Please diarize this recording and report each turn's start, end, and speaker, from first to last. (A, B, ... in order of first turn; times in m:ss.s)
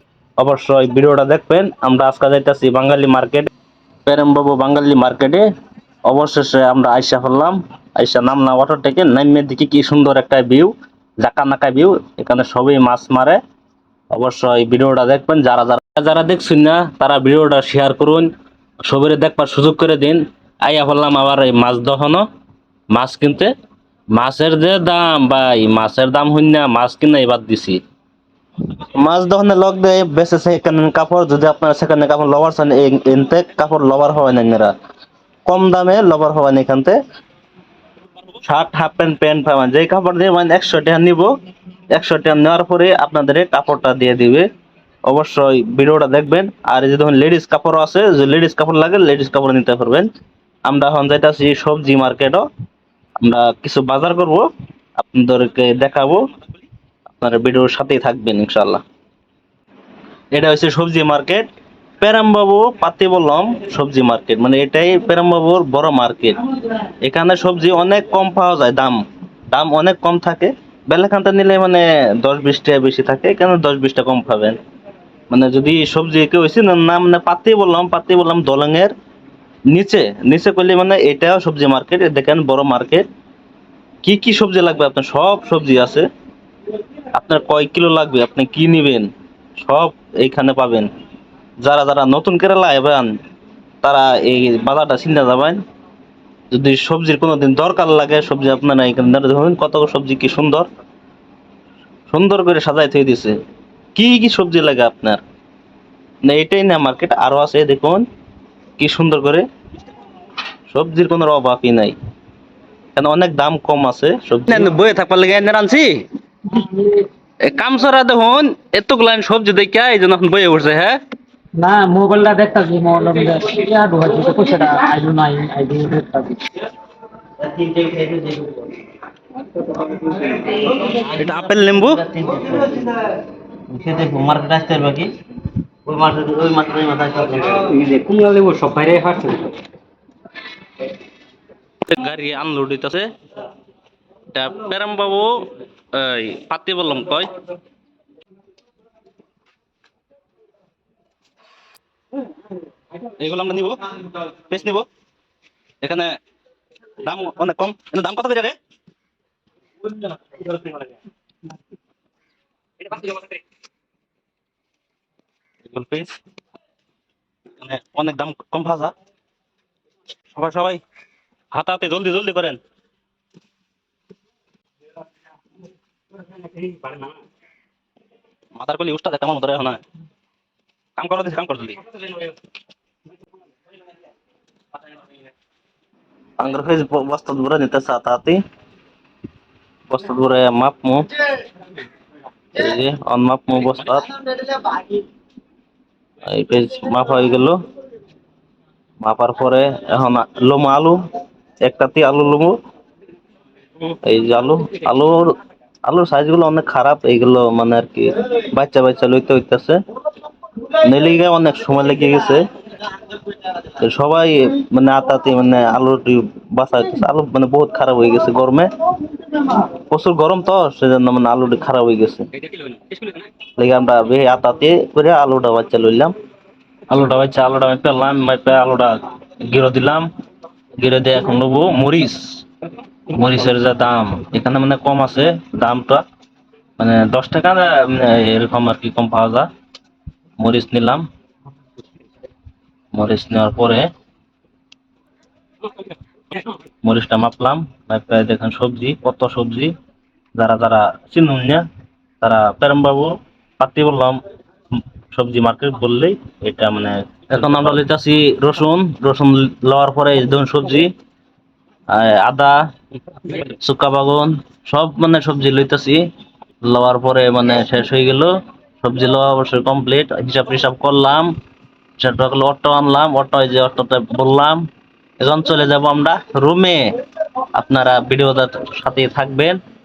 0:00.4-0:03.5 A
0:04.0-0:05.4 A
0:06.1-0:13.4 A
0:14.1-0:18.3 A
0:18.8-0:22.2 A
0:22.9-0:23.5 A
0:24.1-0:27.8 A
0:28.7-0:34.7 A
0:35.4-0:37.0 A
0:38.4-0:41.3 A
0:41.9-0:44.4 A
0:45.0-0:50.1 A
0:50.6-0:52.4 A
0:53.2-0:56.4 A
0:57.2-0:58.8 A
1:00.3-1:01.5 A
1:02.0-1:06.4 A
1:07.0-1:09.0 A
1:09.5-1:14.6 A
1:15.3-1:18.9 A
1:19.7-1:23.0 A
1:24.0-1:26.1 A
1:27.1-1:29.1 A
1:29.6-1:30.9 A
1:31.6-1:33.1 A
1:33.8-1:35.6 A
1:36.5-1:40.7 A
1:42.1-1:43.4 A
1:43.9-1:45.2 A
1:46.2-1:48.0 A
1:48.8-1:49.5 A
1:50.7-1:51.9 A
1:52.9-1:56.0 A
1:56.6-1:57.0 B
1:57.4-2:01.0 A
2:01.6-2:06.5 B
2:07.4-2:08.6 C
2:09.8-2:10.1 B
2:10.5-2:12.9 A
2:12.1-2:12.9 C
2:13.7-2:15.0 C
2:13.8-2:15.0 A
2:15.9-2:17.0 A
2:15.9-2:17.6 C
2:17.6-2:19.6 B
2:21.8-2:23.1 A
2:24.3-2:27.3 A
2:33.0-2:34.8 A
2:35.8-2:36.1 A
2:37.0-2:38.6 A
2:40.2-2:40.9 A
2:42.8-2:43.4 A
2:45.7-2:46.1 A
2:47.6-2:48.9 A
2:50.3-2:50.8 A
2:51.5-2:52.6 A
2:56.6-2:57.1 C
2:58.6-2:59.8 A
3:01.0-3:02.3 A
3:06.4-3:08.4 A
3:09.9-3:11.1 A
3:12.5-3:15.0 A
3:16.2-3:17.6 A
3:19.0-3:21.0 A
3:21.6-3:22.6 A
3:23.9-3:25.3 A
3:25.8-3:29.8 A
3:30.7-3:32.4 A
3:33.6-3:38.7 A
3:39.3-3:42.7 A
3:43.6-3:46.1 A
3:46.9-3:50.1 A
3:50.8-3:52.4 A
3:53.1-3:56.0 A
3:56.8-3:59.5 A
4:00.4-4:01.0 A
4:02.9-4:03.9 A
4:06.4-4:09.7 A
4:10.4-4:11.6 A
4:12.2-4:14.2 A
4:15.1-4:20.9 A
4:21.9-4:22.6 A
4:23.2-4:26.0 A
4:26.6-4:31.3 A
4:32.0-4:34.7 A
4:35.2-4:36.9 A
4:37.5-4:39.6 A